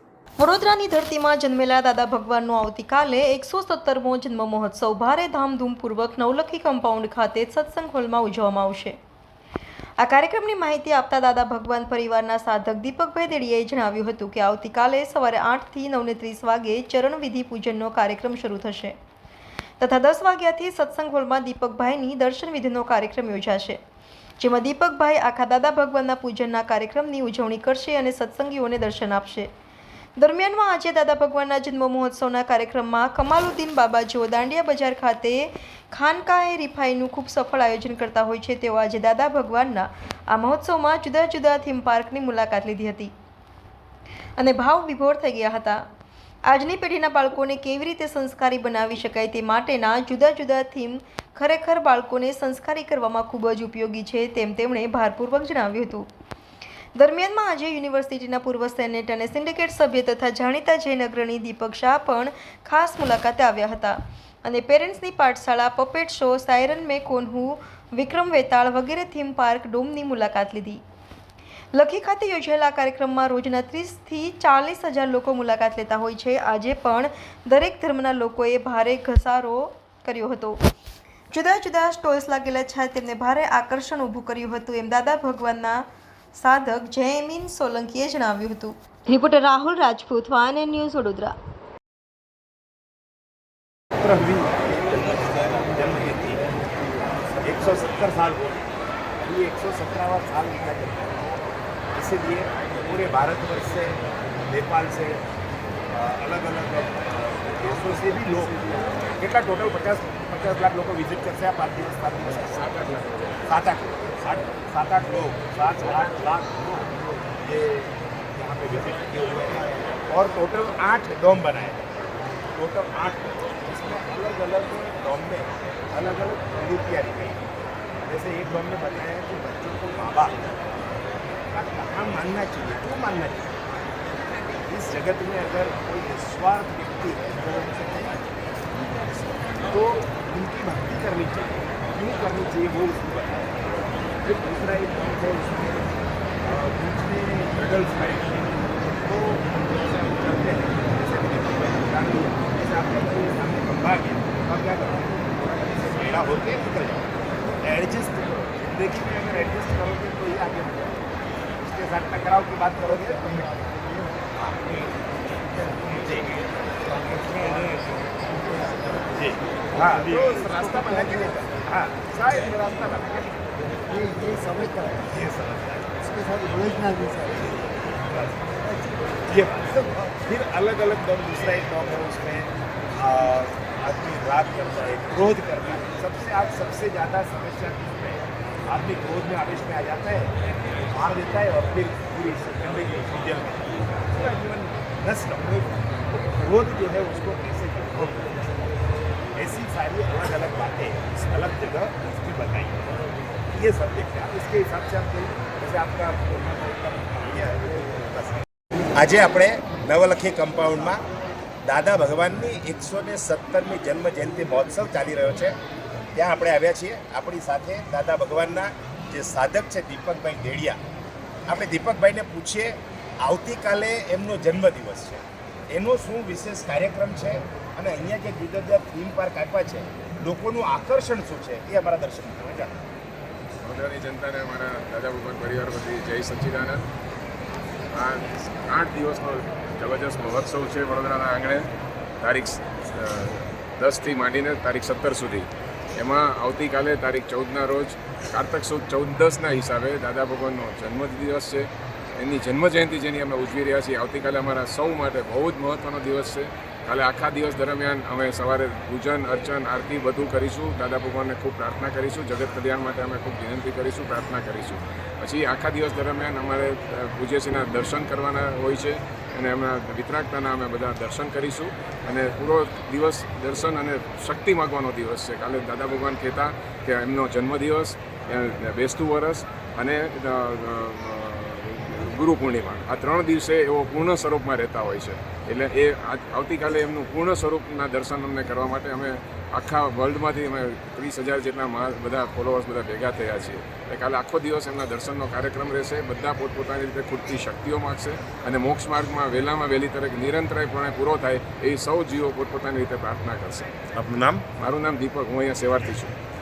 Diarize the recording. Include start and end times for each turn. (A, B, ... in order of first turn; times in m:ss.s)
0:00.4-0:09.0 A
0:10.0-0:19.0 A
0:19.8-0:23.8 A
0:24.4-0:29.5 A
0:30.2-0:43.1 A
0:44.4-0:45.8 A
0:46.5-0:56.1 A
0:57.0-1:10.8 A
1:11.7-1:20.6 A
1:21.3-1:25.8 A
1:26.4-1:31.4 A
1:34.0-1:36.4 B
1:37.4-1:38.7 B
1:39.2-1:41.2 B
1:42.0-1:45.2 B
1:45.9-1:48.6 B
1:49.2-1:52.6 B
1:52.6-1:53.3 C
1:53.5-2:02.0 B
2:02.6-2:07.4 B
2:08.1-2:10.4 B
2:11.5-2:13.6 B
2:14.7-2:18.2 B
2:19.7-2:23.7 B
2:24.2-2:25.9 B
2:26.4-2:41.0 B
2:41.6-2:43.5 B
2:44.4-2:44.9 B
2:45.8-2:46.3 B
2:46.9-2:49.1 D
2:49.1-2:53.4 B
2:49.7-2:51.3 D
2:53.9-2:55.1 D
2:54.9-2:55.9 B
2:56.0-2:57.7 D
2:58.0-2:58.4 B
2:59.3-3:10.3 B
3:10.9-3:18.4 B
3:19.4-3:22.9 B
3:23.5-3:31.0 B
3:31.6-3:35.6 B
3:36.2-3:40.8 B
3:41.5-3:52.8 B
3:53.6-3:56.9 C
3:57.9-4:01.7 C
4:02.2-5:03.7 C
5:03.9-5:04.4 B
5:04.6-5:06.1 C